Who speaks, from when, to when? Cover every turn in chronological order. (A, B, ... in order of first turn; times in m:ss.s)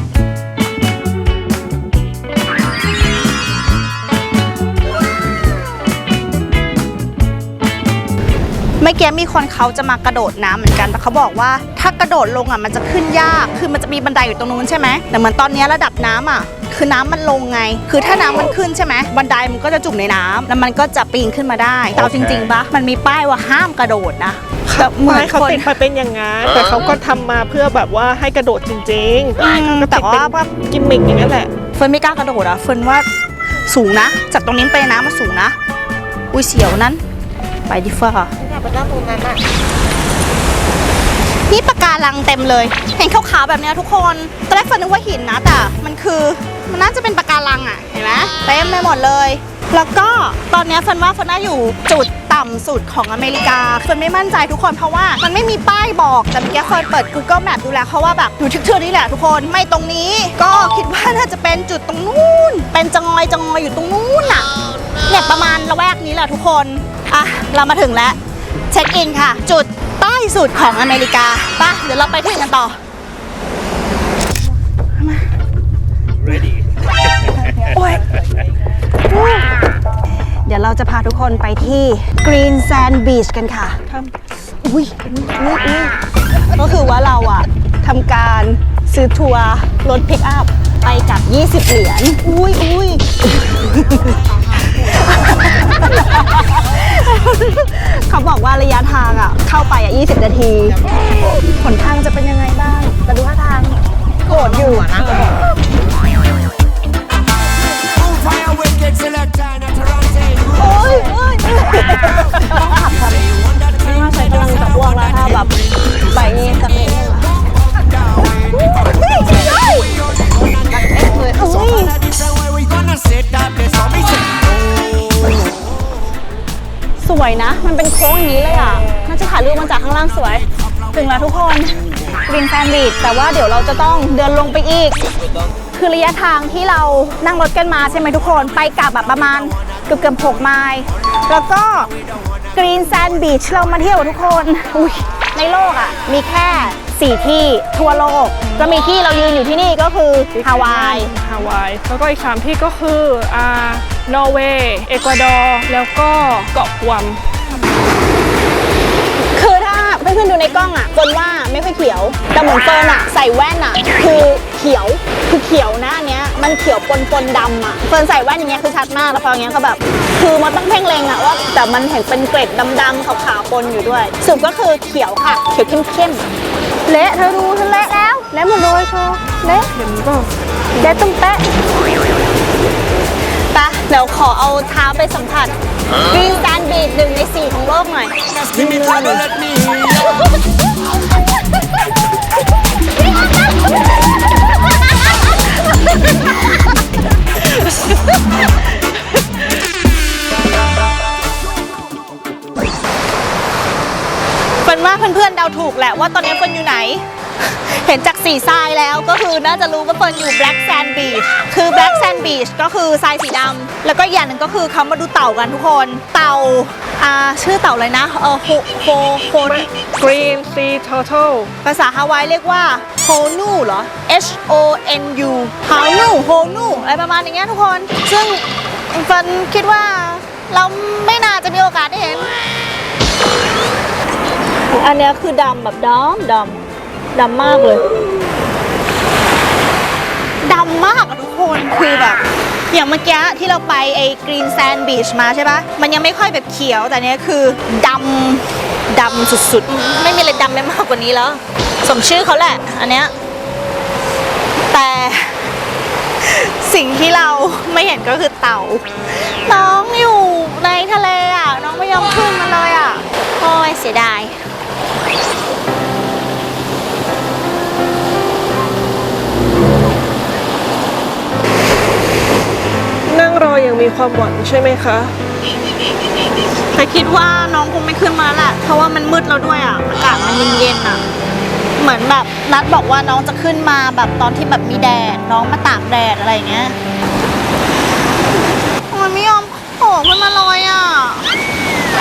0:08.8-0:25.7 A
0:24.7-0:31.5 B
0:29.4-0:30.5 A
0:31.8-0:33.0 A
0:33.7-0:35.6 A
0:36.3-0:37.0 A
0:37.7-0:38.3 A
0:38.4-0:39.4 C
0:41.5-1:04.5 A
1:05.0-1:08.2 A
1:08.7-1:12.8 A
1:15.0-1:15.2 A
1:17.3-1:18.2 A
1:19.1-1:19.5 A
1:20.4-1:23.8 A
1:24.6-1:25.9 A
1:26.5-1:40.8 A
1:41.4-1:45.5 A
1:44.2-1:45.4 C
1:50.4-1:55.5 A
1:56.0-1:57.2 A
1:58.5-1:59.9 A
2:00.6-2:01.9 C
2:01.2-2:02.0 A
2:05.2-2:05.6 A
2:07.0-2:15.0 A
2:15.7-2:21.9 A
2:22.5-2:31.1 A
2:30.3-2:37.2 B
2:39.3-2:56.2 A
2:56.8-2:59.7 A
2:59.5-3:00.3 B
3:00.8-3:01.4 A
3:03.5-3:09.3 A
3:17.5-3:17.8 A
3:24.6-3:39.7 A
3:39.4-3:41.5 B
3:41.6-3:52.4 A
3:54.7-3:56.6 A
3:57.1-3:57.8 A
4:00.4-4:13.1 A
4:14.7-4:15.5 A
4:16.2-4:24.3 A
4:33.0-4:35.1 B
4:36.7-4:41.0 A
4:41.8-4:46.8 A
4:48.9-4:51.2 A